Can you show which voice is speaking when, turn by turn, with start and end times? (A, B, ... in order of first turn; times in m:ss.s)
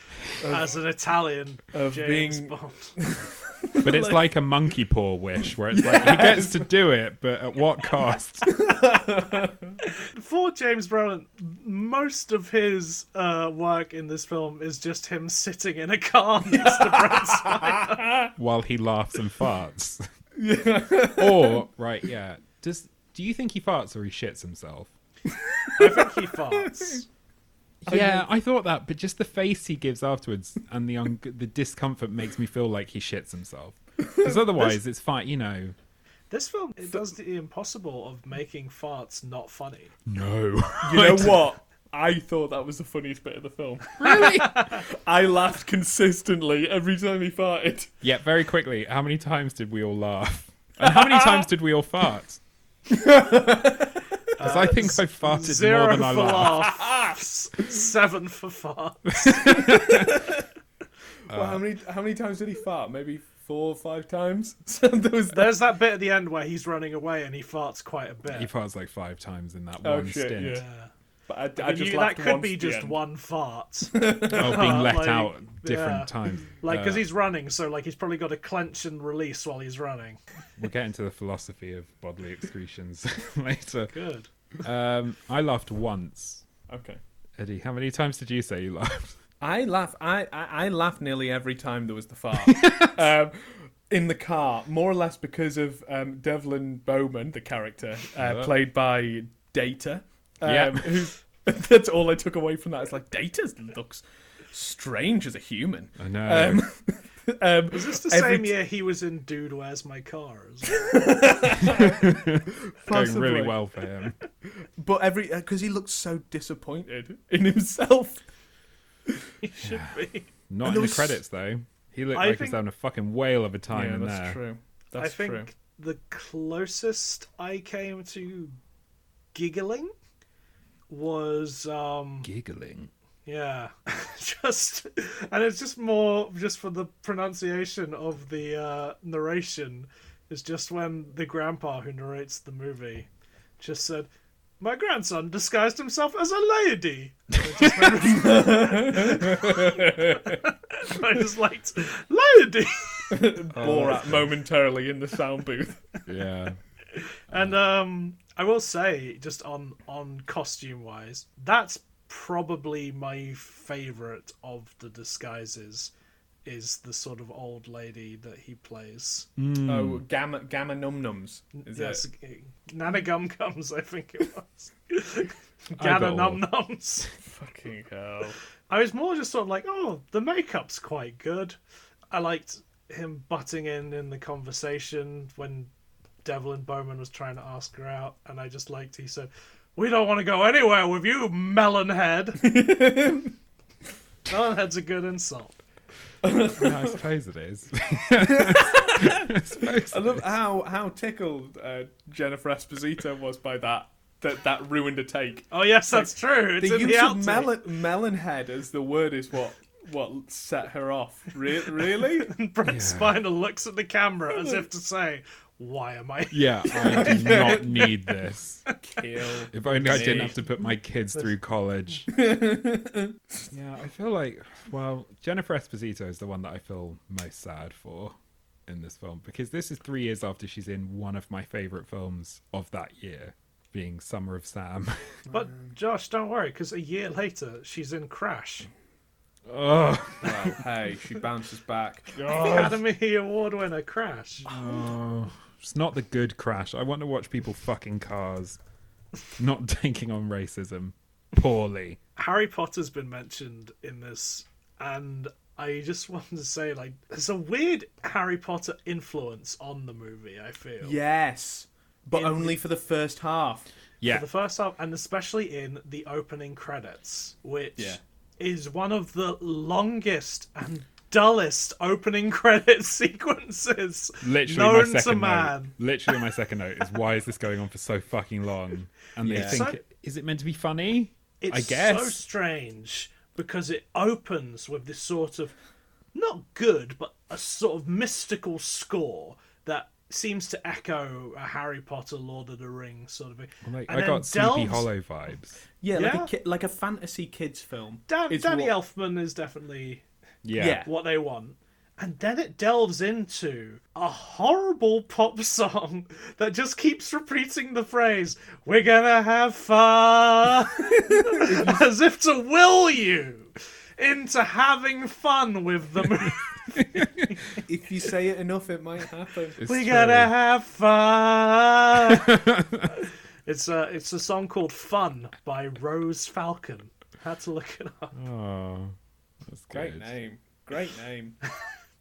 0:00.3-0:00.7 A
0:00.4-0:02.9 B
0:01.7-0:04.3 A
0:03.8-0:08.5 C
0:05.7-0:06.7 A
0:08.4-0:09.8 A
0:09.8-0:18.0 B
0:16.5-0:18.3 A
0:18.4-0:20.0 C
0:20.4-0:21.6 A
0:21.2-0:24.9 C
0:25.3-0:27.0 A
0:25.8-0:27.0 B
0:27.8-0:35.7 C
0:27.9-0:28.2 A
0:34.0-0:34.8 A
0:36.3-0:39.9 B
0:40.1-0:41.4 C
0:40.8-0:47.9 A
0:44.0-0:44.6 C
0:44.1-0:44.8 B
0:48.0-0:52.4 C
0:50.8-0:51.5 A
0:52.9-0:54.3 A
0:54.4-1:00.1 B
0:54.4-0:56.6 C
0:56.6-0:57.2 A
0:59.1-1:00.1 C
0:59.7-1:00.4 A
1:01.3-1:05.6 A
1:01.3-1:01.6 C
1:05.3-1:08.5 B
1:08.3-1:10.6 C
1:09.8-1:10.6 A
1:10.4-1:10.9 B
1:11.3-1:13.0 A
1:11.6-1:20.2 B
1:13.9-1:14.8 A
1:14.3-1:17.0 C
1:20.6-1:23.9 C
1:23.9-1:24.3 B
1:24.6-1:26.4 C
1:26.7-1:27.0 A
1:27.4-1:29.2 C
1:29.4-1:48.5 A
1:32.4-1:32.9 C
1:38.2-1:38.5 C
1:40.4-1:41.1 C
1:46.0-1:46.6 C
1:47.7-1:51.4 B
1:50.7-1:53.6 A
1:51.6-1:54.2 C
1:54.6-1:58.2 A
1:59.4-2:00.3 B
1:59.6-1:59.9 C
2:00.5-2:04.4 C
2:00.6-2:01.2 A
2:02.1-2:02.6 B
2:03.7-2:05.5 A
2:05.0-2:08.6 B
2:09.3-2:09.9 B
2:10.9-2:12.3 B
2:12.2-2:12.9 C
2:13.2-2:23.1 B
2:23.6-2:24.1 B
2:24.6-2:33.3 B
2:28.0-2:30.4 A
2:33.1-2:36.0 A
2:33.5-2:34.3 C
2:36.1-2:36.6 C
2:36.9-2:45.9 B
2:46.4-2:49.3 B
2:49.4-2:50.0 C
2:49.6-2:52.0 A
2:51.6-2:57.1 B
2:55.8-2:56.4 C
2:57.2-2:58.4 A
2:58.7-3:01.6 B
3:02.1-3:05.7 B
3:06.2-3:12.4 B
3:12.4-3:13.3 A
3:14.3-3:15.6 B
3:16.2-3:17.0 A
3:16.5-3:20.3 C
3:18.3-3:32.3 A
3:25.5-3:27.6 B
3:32.0-3:37.8 B
3:32.7-3:33.2 C
3:36.3-3:38.7 C
3:36.8-3:37.7 A
3:38.8-3:40.4 A
3:39.5-3:42.1 C
3:40.0-3:40.2 B
3:42.1-3:43.4 A
3:43.5-3:48.1 C
3:48.7-3:55.2 C
3:55.3-3:58.7 B
3:59.4-4:00.6 C
4:00.2-4:02.2 A
4:02.2-4:02.8 C
4:02.2-4:04.5 B
4:04.4-4:08.6 C
4:04.5-4:04.8 A
4:09.4-4:12.0 C
4:12.2-4:21.0 B
4:20.8-4:23.7 A
4:22.1-4:22.6 B
4:24.0-4:36.2 B
4:34.2-4:42.2 C
4:39.2-4:39.6 A
4:39.4-4:39.8 B
4:41.4-4:45.5 B
4:46.1-4:54.9 B
4:53.6-4:55.6 C
4:55.8-4:58.7 A
4:55.9-4:56.3 B
4:58.1-5:00.0 B
5:00.4-5:00.8 C
5:00.6-5:00.9 A
5:00.8-5:17.6 B
5:11.1-5:11.8 A
5:17.0-5:17.3 C
5:17.6-5:19.6 A
5:19.6-5:20.3 C
5:19.6-5:28.1 B
5:22.1-5:22.9 C
5:28.1-5:30.1 C
5:29.7-5:31.4 A